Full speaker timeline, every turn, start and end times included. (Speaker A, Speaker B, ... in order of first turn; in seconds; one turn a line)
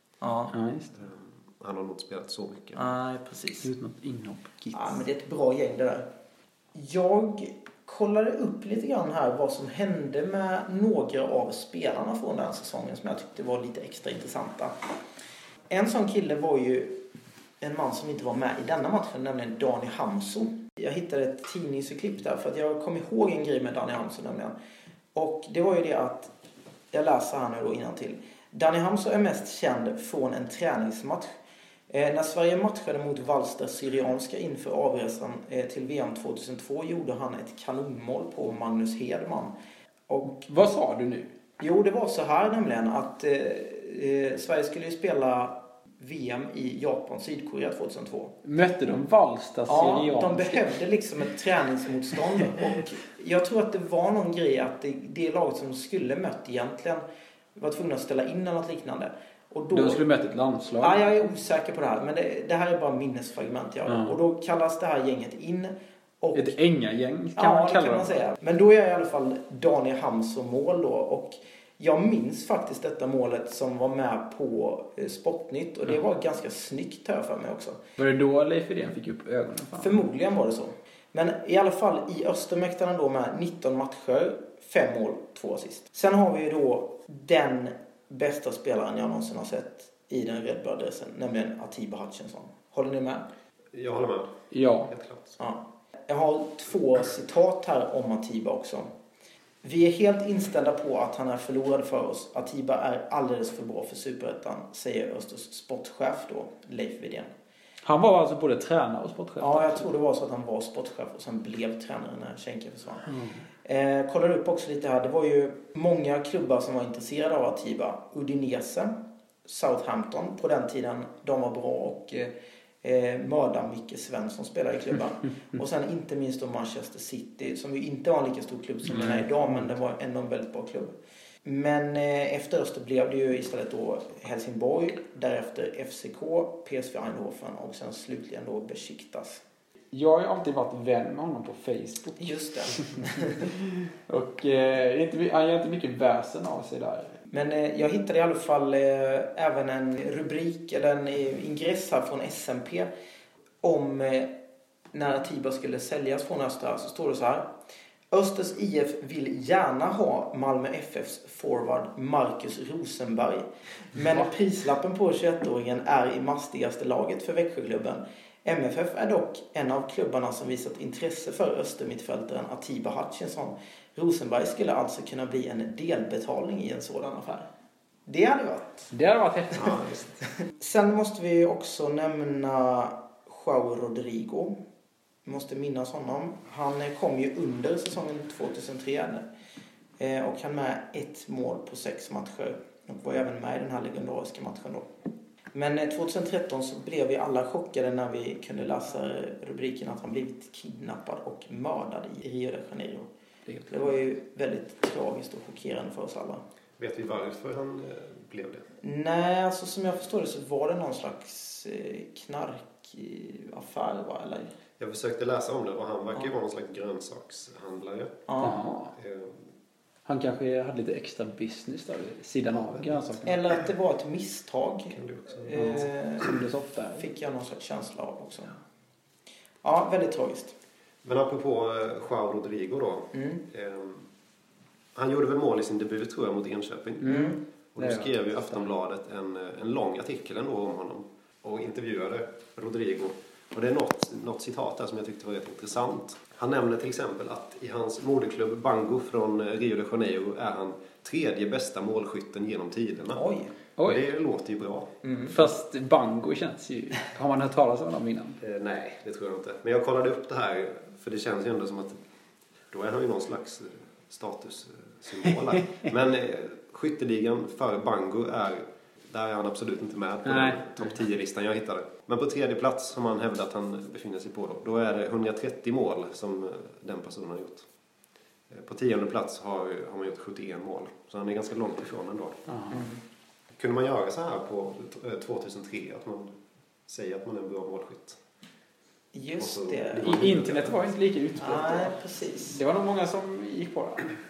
Speaker A: 0.2-0.5
Speaker B: 0.5-0.9
Speaker C: 1.0-2.9
Speaker A: 2.8-3.7
Speaker B: 3.6-5.0
Speaker A: 4.7-6.1
Speaker A: 6.8-14.8
Speaker A: 15.7-17.0
Speaker A: 17.6-24.6
Speaker A: 25.1-26.3
Speaker A: 26.9-31.3
Speaker A: 31.9-39.5
Speaker A: 40.1-40.5
Speaker B: 40.3-41.3
Speaker A: 41.6-48.3
Speaker B: 48.4-50.6
Speaker A: 49.7-60.0
Speaker B: 59.7-61.0
Speaker A: 60.8-66.6
Speaker B: 63.9-64.2
Speaker B: 66.3-68.2
Speaker A: 67.4-77.8
Speaker B: 78.0-80.0
Speaker A: 79.8-93.3
Speaker C: 93.7-95.4
Speaker B: 94.5-94.9
Speaker A: 95.4-98.9
Speaker A: 99.6-107.3
Speaker B: 107.8-109.9
Speaker A: 109.4-113.1
Speaker B: 113.1-113.4
Speaker A: 113.7-118.9
Speaker A: 119.5-122.3
Speaker A: 122.8-130.9
Speaker B: 128.9-129.6
Speaker A: 131.4-139.4
Speaker B: 139.9-142.2
Speaker A: 142.2-143.5
Speaker B: 142.8-147.1
Speaker A: 147.3-152.9
Speaker A: 153.6-154.3
Speaker A: 154.9-157.5
Speaker A: 158.1-177.5
Speaker A: 178.1-178.9
Speaker B: 178.9-179.7
Speaker C: 179.6-180.2
Speaker A: 180.4-184.6
Speaker A: 185.2-189.3
Speaker A: 190.0-194.9
Speaker A: 195.5-203.1
Speaker B: 203.5-203.9
Speaker A: 203.7-206.4
Speaker C: 206.8-208.7
Speaker A: 208.8-214.5
Speaker C: 214.8-218.2
Speaker A: 218.3-218.6
Speaker B: 218.4-218.9
Speaker C: 219.0-219.4
Speaker B: 220.1-223.3
Speaker C: 222.6-223.0
Speaker A: 223.2-226.4
Speaker C: 224.9-225.8
Speaker B: 225.6-227.1
Speaker A: 227.0-228.5
Speaker A: 229.6-230.6
Speaker C: 231.0-234.1
Speaker A: 233.1-233.4
Speaker C: 234.9-237.2
Speaker B: 237.0-238.7
Speaker A: 237.1-237.4
Speaker C: 237.7-253.2
Speaker A: 253.1-253.5
Speaker B: 253.8-254.0
Speaker C: 253.8-254.9
Speaker A: 255.0-255.3
Speaker B: 255.3-258.4
Speaker C: 258.4-262.0
Speaker C: 262.7-277.7
Speaker B: 270.2-270.8
Speaker C: 278.5-282.4
Speaker B: 282.5-282.8
Speaker A: 282.7-283.0
Speaker C: 283.6-286.4
Speaker C: 286.9-288.2
Speaker A: 289.1-290.3
Speaker C: 289.4-290.8
Speaker B: 290.1-291.9
Speaker A: 291.4-292.6
Speaker B: 292.5-294.1